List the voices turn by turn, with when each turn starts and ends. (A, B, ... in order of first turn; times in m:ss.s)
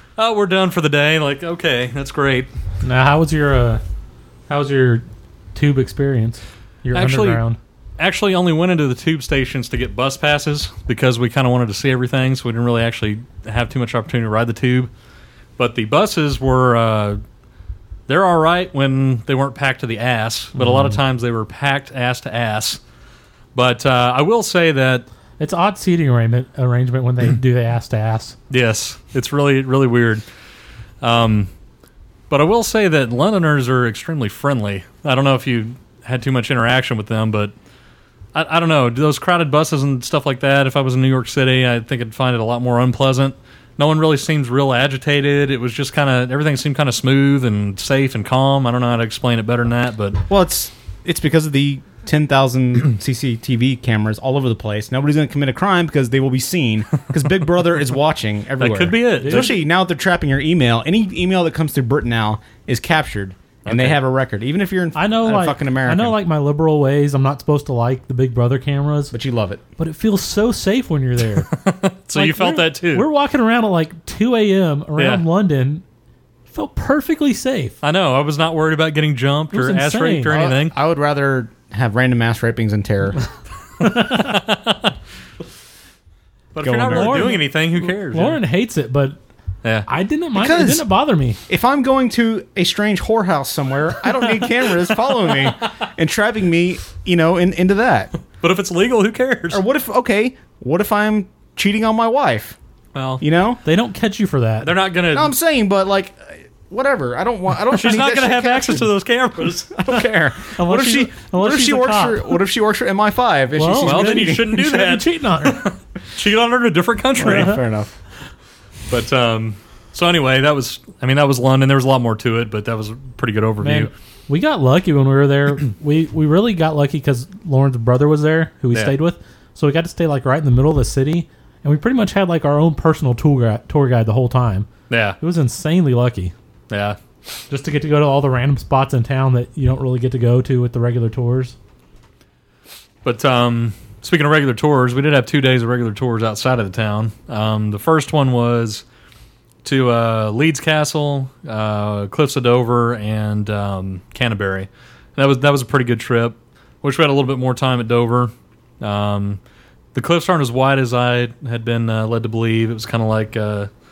0:00.2-0:02.5 A
0:02.8-0:03.8 B
0:04.5-0:07.6 B
0:06.9-0:07.4 A
0:08.0-0:14.9 A
0:15.6-0:17.2 A
0:18.1-0:22.8 A
0:20.6-0:21.0 B
0:23.5-0:25.0 A
0:25.4-0:28.4 B
0:28.5-0:30.2 A
0:31.0-0:31.5 A
0:32.3-0:37.5 A
0:38.3-0:50.2 A
0:50.3-1:06.2 C
0:58.6-0:59.5 A
0:59.2-0:59.6 B
1:03.6-1:04.0 A
1:05.0-1:09.1 B
1:09.1-1:09.6 C
1:09.8-1:11.5 B
1:11.5-1:13.0 A
1:12.1-1:15.8 B
1:15.0-1:15.2 A
1:16.5-1:17.8 B
1:17.8-1:20.7 A
1:19.5-1:20.4 B
1:20.3-1:23.2 C
1:23.8-1:24.9 A
1:23.8-1:24.3 B
1:26.5-1:28.4 A
1:26.6-1:27.3 C
1:26.9-1:29.2 B
1:29.9-1:31.4 B
1:30.3-1:30.8 C
1:31.5-1:38.1 C
1:38.4-1:39.6 A
1:39.5-1:42.6 C
1:42.9-1:43.2 A
1:43.2-1:43.6 C
1:43.6-1:44.7 B
1:44.6-1:45.3 A
1:45.1-1:48.9 C
1:47.7-1:49.7 A
1:49.7-1:54.5 C
1:50.6-1:52.4 B
1:53.6-1:55.6 B
1:53.8-1:57.6 A
1:57.2-1:57.9 C
1:57.2-1:57.5 B
1:58.9-2:03.9 A
2:03.6-2:14.7 B
2:14.9-2:15.2 A
2:15.2-2:16.3 B
2:16.7-2:17.0 A
2:17.5-2:21.5 B
2:23.0-2:28.8 A
2:29.6-2:39.4 A
2:39.9-2:43.7 A